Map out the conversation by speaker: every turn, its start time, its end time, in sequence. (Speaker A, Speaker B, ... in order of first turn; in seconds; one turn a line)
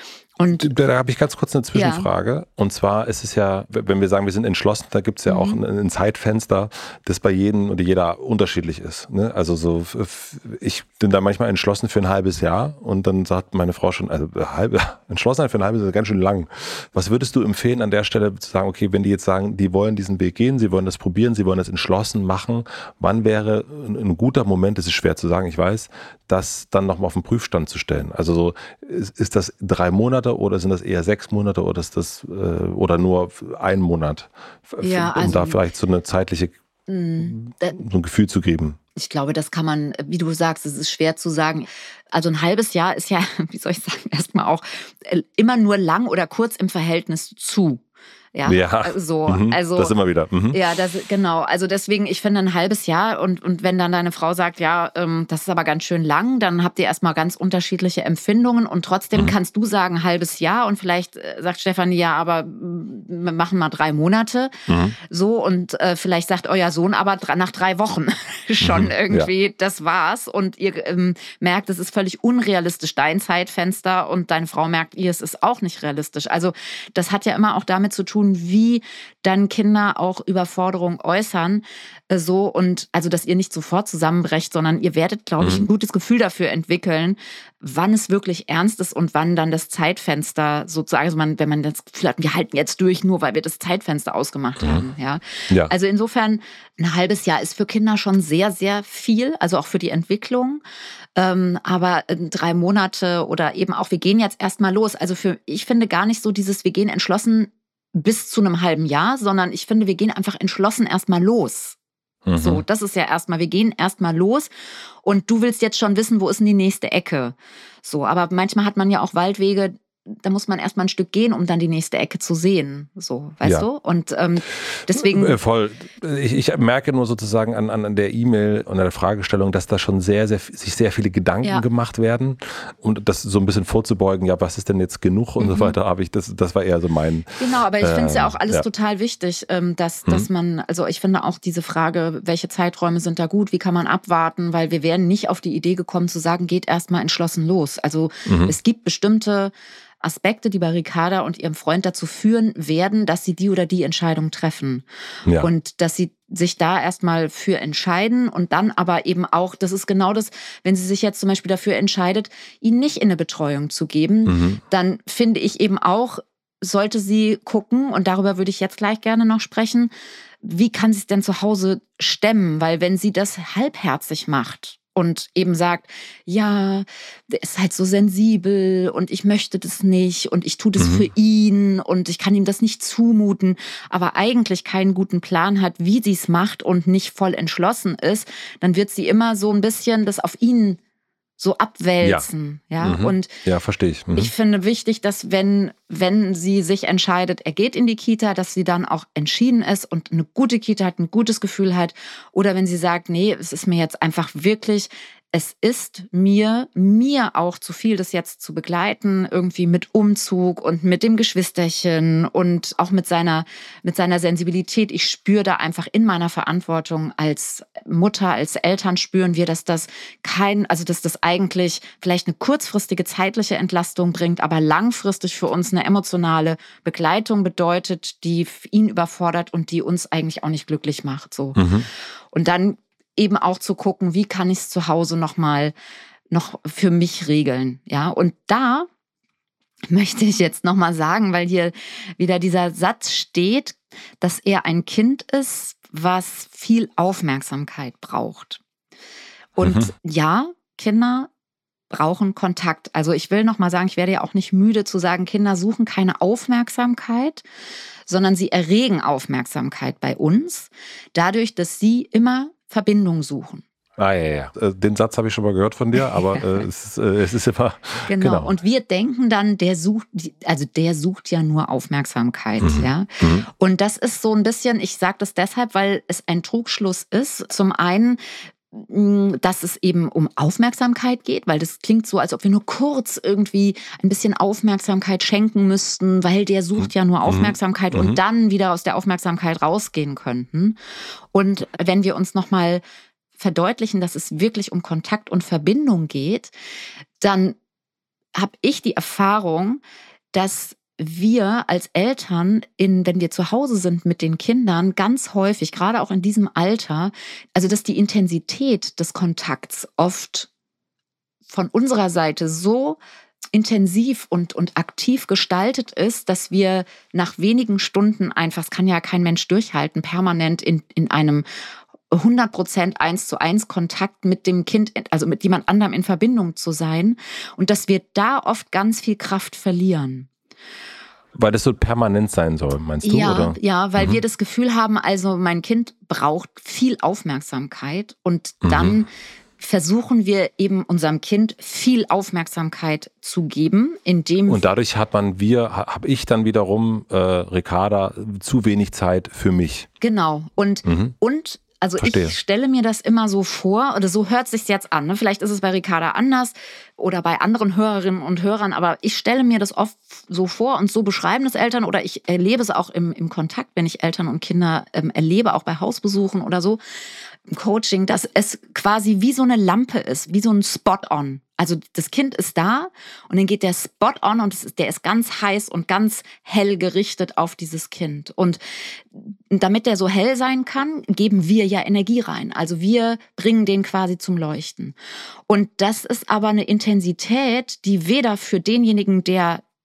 Speaker A: 0.4-0.7
Speaker B: 0.6-36.5
Speaker A: 1.7-2.1
Speaker A: 5.3-5.6
Speaker A: 34.8-35.6
Speaker A: 36.9-37.8
Speaker B: 37.2-38.8
Speaker A: 39.0-47.8
Speaker A: 48.4-50.0
Speaker B: 48.5-50.6
Speaker A: 50.5-100.6
Speaker B: 64.7-65.0
Speaker B: 68.6-69.3
Speaker B: 85.4-85.7
Speaker B: 94.6-94.9
Speaker A: 101.2-111.8
Speaker B: 112.3-112.6
Speaker A: 112.4-114.5
Speaker A: 115.0-125.4
Speaker B: 124.9-138.6
Speaker A: 135.4-135.8
Speaker A: 137.4-154.8
Speaker B: 148.3-148.6
Speaker A: 155.4-169.9
Speaker B: 164.3-164.6
Speaker A: 170.4-190.8
Speaker B: 180.8-181.1
Speaker A: 191.4-193.3
Speaker B: 192.8-194.3
Speaker A: 194.1-231.7
Speaker B: 231.6-231.9
Speaker A: 232.3-235.7
Speaker A: 236.3-238.9
Speaker A: 239.9-248.6
Speaker A: 249.6-251.3
Speaker B: 249.6-249.9
Speaker A: 251.9-257.4
Speaker A: 258.1-263.6
Speaker B: 264.0-268.5
Speaker A: 266.0-266.6
Speaker A: 268.1-278.2
Speaker B: 272.6-273.5
Speaker A: 278.7-290.8
Speaker B: 287.3-288.2
Speaker A: 291.3-292.8
Speaker A: 293.4-296.5
Speaker A: 297.2-297.6
Speaker A: 298.4-299.8
Speaker A: 300.3-310.5
Speaker A: 311.5-313.0
Speaker A: 313.5-321.4
Speaker A: 322.1-330.3
Speaker B: 331.4-334.2
Speaker A: 333.0-344.7
Speaker B: 338.6-339.0
Speaker B: 344.5-349.9
Speaker A: 350.0-366.8
Speaker B: 350.9-351.1
Speaker B: 352.0-352.4
Speaker A: 367.5-378.6
Speaker A: 379.1-384.9
Speaker A: 385.5-389.6